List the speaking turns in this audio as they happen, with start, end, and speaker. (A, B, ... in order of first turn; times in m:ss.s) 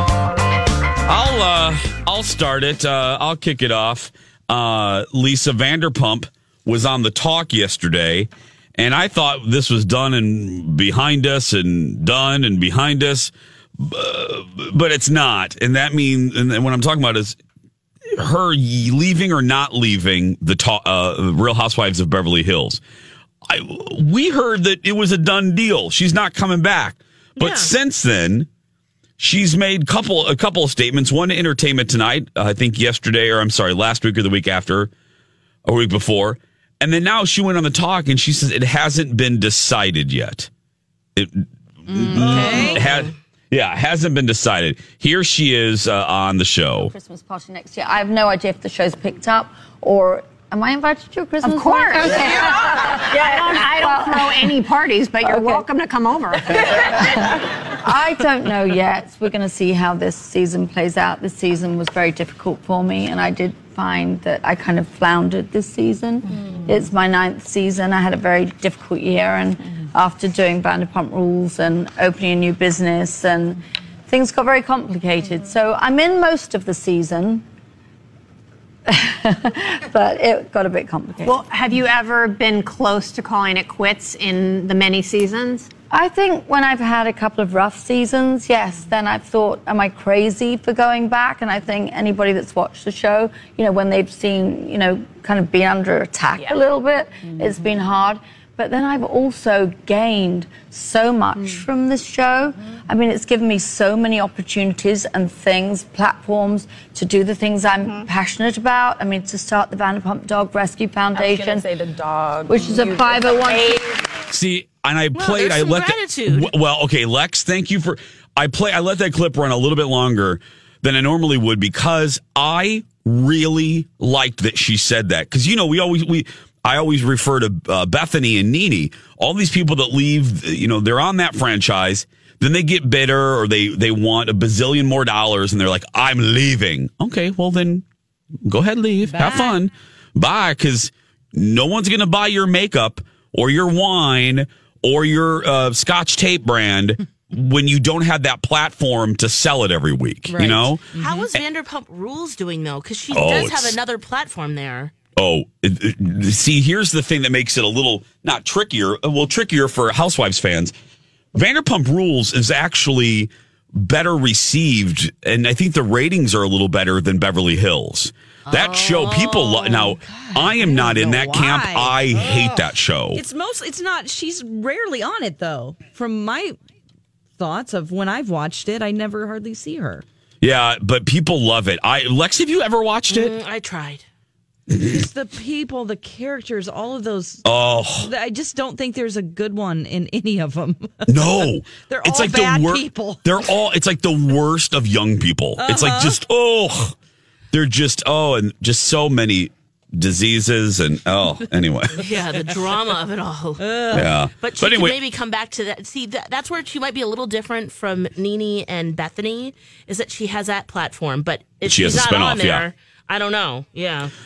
0:01.1-0:17.4 A
0:18.0-0:22.8 A
0:23.4-0:28.5 A
0:27.4-0:27.7 B
0:29.2-0:34.9 A
0:35.6-0:40.5 A
0:41.2-0:46.9 A
0:41.9-0:42.8 C
0:42.2-0:43.1 B
0:46.8-0:54.5 D
0:51.4-0:57.0 E
0:55.2-0:55.6 D
0:56.8-0:57.3 D
0:57.8-1:17.4 D
1:18.9-1:21.4 D
1:21.2-1:25.7 E
1:25.9-1:51.7 D
1:51.2-1:53.9 F
1:52.5-1:53.9 D
1:54.3-2:17.8 A
1:55.1-1:56.5 B
2:18.4-2:31.4 A
2:19.1-2:19.6 C
2:30.3-2:31.3 C
2:31.0-2:34.9 B
2:33.1-2:33.8 A
2:35.2-2:40.7 A
2:41.3-2:53.2 A
2:48.5-2:49.9 B
2:50.0-2:52.4 C
2:53.1-2:56.6 C
2:57.4-3:00.0 C
3:00.4-3:03.4 A
3:03.1-3:04.0 B
3:04.7-3:05.0 A
3:04.8-3:13.2 C
3:07.4-3:08.1 A
3:11.1-3:17.0 A
3:15.6-3:16.2 C
3:17.5-3:22.0 A
3:22.0-3:34.1 B
3:23.6-3:24.1 C
3:23.9-3:25.0 A
3:31.6-3:32.6 A